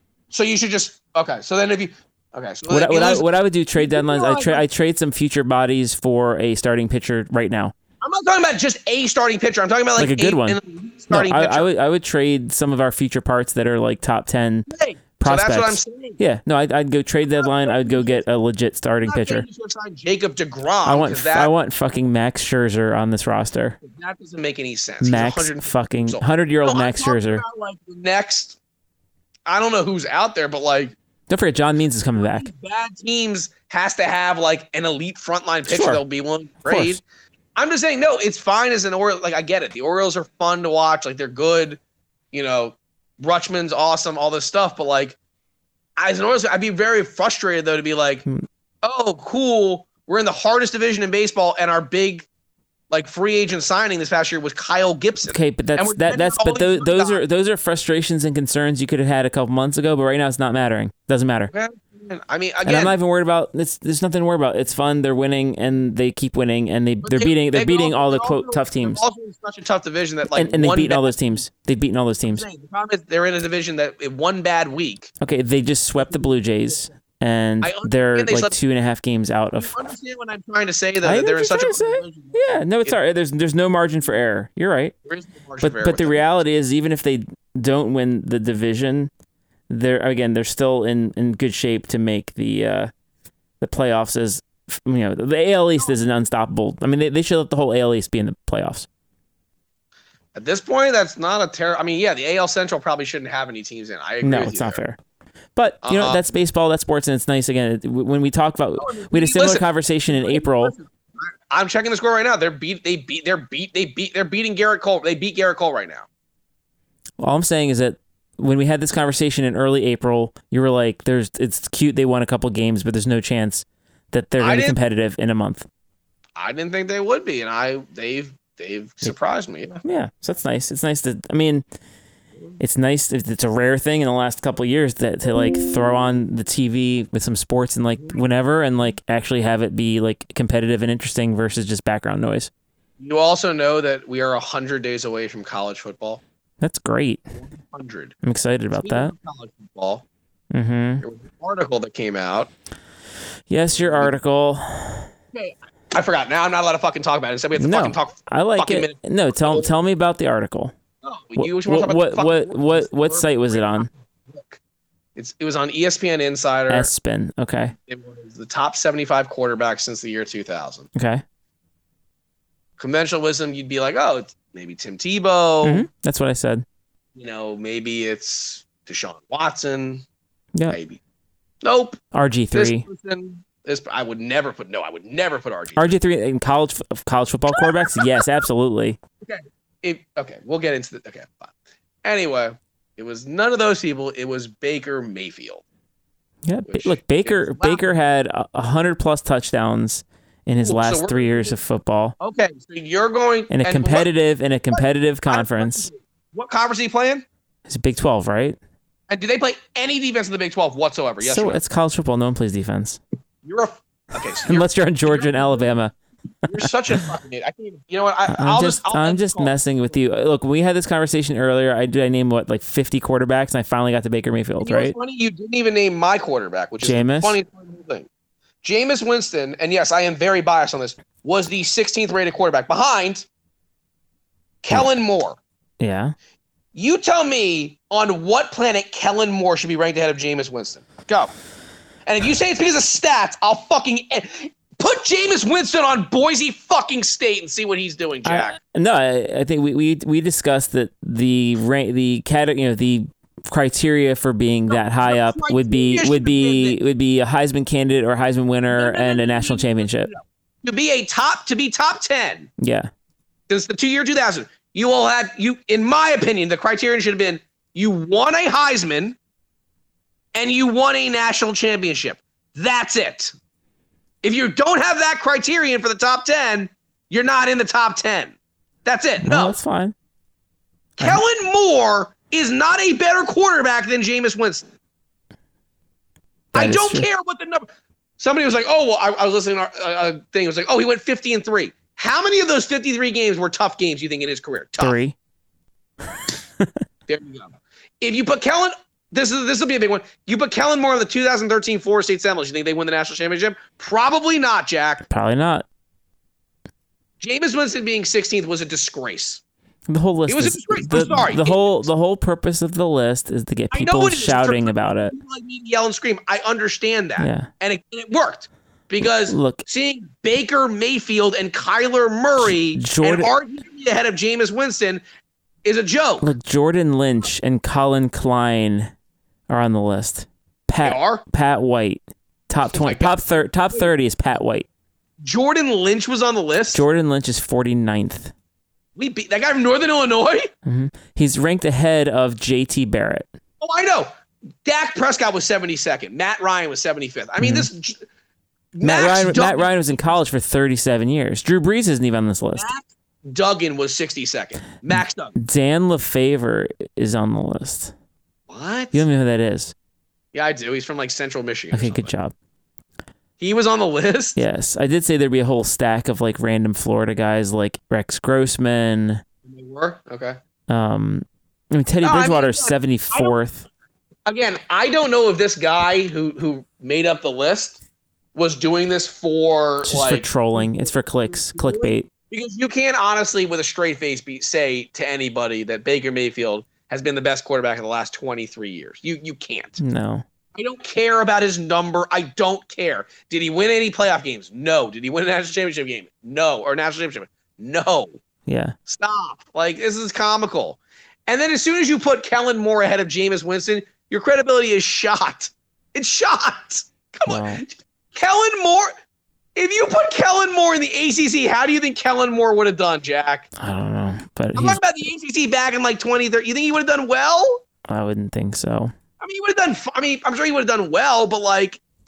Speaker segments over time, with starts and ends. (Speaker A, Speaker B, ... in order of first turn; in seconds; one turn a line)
Speaker A: 0.3-4.6
Speaker B: 2.7-7.7
Speaker A: 8.0-11.7
Speaker B: 9.9-10.6
Speaker B: 11.1-14.7
Speaker A: 14.7-16.2
Speaker B: 15.2-19.4
Speaker A: 17.2-18.2
Speaker A: 19.0-21.5
Speaker B: 20.8-23.8
Speaker A: 23.8-28.6
Speaker B: 25.0-27.4
Speaker A: 29.5-30.9
Speaker B: 31.3-32.5
Speaker A: 32.1-37.0
Speaker B: 35.7-36.0
Speaker B: 36.6-37.0
Speaker A: 37.5-41.8
Speaker A: 42.3-45.2
Speaker A: 46.0-48.2
Speaker A: 48.8-52.3
Speaker A: 52.9-57.2
Speaker B: 55.3-61.5
Speaker A: 61.5-62.9
Speaker B: 62.6-69.0
Speaker A: 67.0-71.4
Speaker B: 70.3-72.5
Speaker A: 72.2-75.1
Speaker B: 75.2-79.8
Speaker A: 76.0-76.8
Speaker A: 77.6-78.5
Speaker A: 79.6-83.0
Speaker B: 81.0-84.9
Speaker A: 85.0-86.3
Speaker B: 85.6-89.1
Speaker B: 89.7-92.9
Speaker B: 93.6-98.9
Speaker A: 100.3-104.8
Speaker B: 104.2-105.0
Speaker B: 105.5-110.7
Speaker A: 105.8-106.2
Speaker A: 108.8-116.1
Speaker B: 117.2-125.7
Speaker A: 124.4-124.8
Speaker A: 126.3-129.8
Speaker B: 129.8-131.6
Speaker B: 132.6-142.5
Speaker A: 143.0-146.2
Speaker B: 146.6-147.2
Speaker A: 147.3-148.1
Speaker B: 148.2-149.1
Speaker A: 148.7-150.0
Speaker B: 150.5-151.0
Speaker A: 151.0-152.5
Speaker B: 153.5-155.1
Speaker A: 153.7-154.1
Speaker A: 155.3-159.7
Speaker B: 157.6-160.7
Speaker A: 161.0-164.6
Speaker B: 161.3-163.9
Speaker A: 165.2-166.9
Speaker B: 166.7-167.7
Speaker A: 167.8-170.9
Speaker B: 170.9-171.2
Speaker A: 172.8-175.9
Speaker B: 175.6-176.6
Speaker A: 177.2-180.0
Speaker A: 180.7-181.0
Speaker A: 181.6-182.0
Speaker B: 182.1-182.8
Speaker A: 182.5-185.9
Speaker B: 185.8-189.0
Speaker A: 187.5-188.3
Speaker A: 189.2-191.5
Speaker A: 192.0-195.6
Speaker B: 196.4-202.1
Speaker A: 196.7-197.9
Speaker A: 200.6-201.6
Speaker A: 202.2-204.1
Speaker B: 203.5-205.9
Speaker A: 204.7-207.2
Speaker B: 207.7-208.6
Speaker A: 209.1-211.6
Speaker B: 211.2-213.0
Speaker A: 213.4-215.7
Speaker B: 214.4-215.9
Speaker A: 216.4-219.9
Speaker B: 216.4-217.0
Speaker B: 218.3-224.9
Speaker A: 224.6-228.1
Speaker B: 226.8-227.4
Speaker A: 228.6-233.3
Speaker A: 234.6-235.4
Speaker B: 235.8-236.1
Speaker A: 236.7-241.3
Speaker A: 242.1-248.6
Speaker B: 248.2-260.1
Speaker A: 254.7-256.8
Speaker A: 258.7-262.5
Speaker B: 262.6-262.9
Speaker A: 263.5-269.2
Speaker A: 270.3-273.3
Speaker A: 274.2-279.6
Speaker B: 279.2-279.9
Speaker A: 281.0-284.6
Speaker A: 286.5-287.7
Speaker B: 286.5-287.1
Speaker A: 288.2-295.0
Speaker B: 294.8-295.1
Speaker A: 297.1-305.1
Speaker B: 305.1-305.6
Speaker A: 307.2-309.4
Speaker B: 309.9-315.1
Speaker A: 310.3-311.9
Speaker A: 313.7-325.0
Speaker B: 317.2-317.5
Speaker B: 319.0-319.6
Speaker B: 322.4-323.3
Speaker A: 325.6-326.3
Speaker B: 326.2-328.9
Speaker B: 329.5-334.7
Speaker A: 330.8-331.2
Speaker A: 332.6-333.1
Speaker A: 335.2-336.8
Speaker B: 336.7-338.3
Speaker A: 339.0-340.5
Speaker B: 340.6-343.3
Speaker A: 343.6-344.1
Speaker A: 344.6-348.0
Speaker B: 347.4-347.7
Speaker A: 348.7-350.2
Speaker B: 348.8-352.7
Speaker A: 352.6-355.4
Speaker B: 354.9-357.9
Speaker A: 358.5-359.0
Speaker B: 358.9-359.7
Speaker A: 360.3-362.1
Speaker B: 361.7-362.3
Speaker A: 363.4-364.4
Speaker B: 364.4-369.2
Speaker A: 369.4-370.4
Speaker B: 370.7-373.6
Speaker A: 372.0-373.3
Speaker A: 374.2-377.8
Speaker A: 378.3-389.8
Speaker B: 379.8-382.1
Speaker B: 389.8-390.2
Speaker A: 390.5-398.2
Speaker B: 398.4-398.7
Speaker A: 398.9-408.9
Speaker B: 407.3-407.6
Speaker A: 409.6-413.5
Speaker B: 413.6-414.8
Speaker A: 414.5-417.6
Speaker B: 417.9-418.9
Speaker A: 419.2-421.8